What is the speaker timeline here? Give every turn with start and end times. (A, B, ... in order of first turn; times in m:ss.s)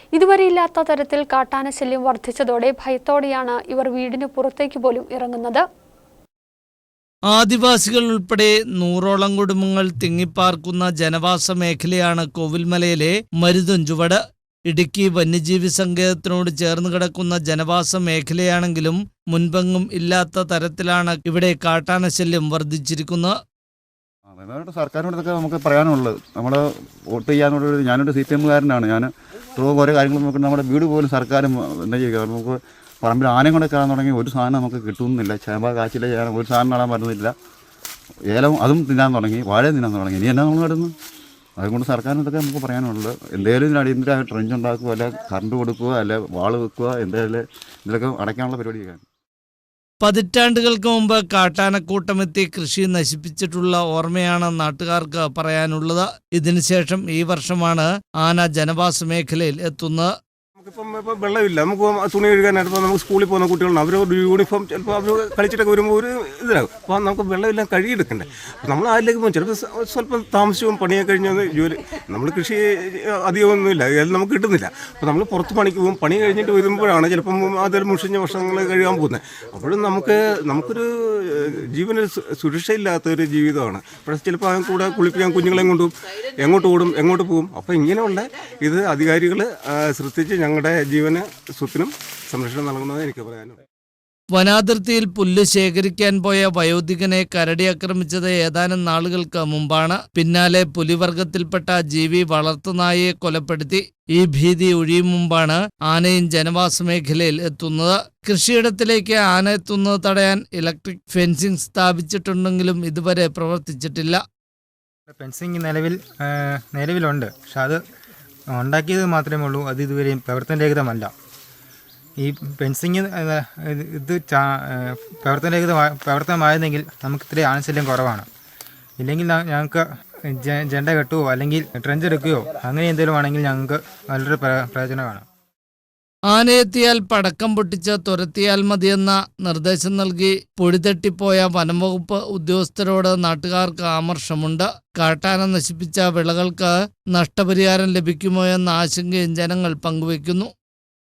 0:00.1-0:05.6 A
0:07.3-0:23.3 B
0:24.3-0:37.3 C
0:38.3-0:41.0 C
0:41.6-0:49.0 C
0:50.0-1:00.1 B
1:00.6-1:33.6 D
1:34.3-1:54.2 B
1:55.1-1:57.8 E
1:58.5-2:01.1 E
2:02.2-2:08.3 E
2:09.0-2:15.2 E
2:16.3-2:30.5 B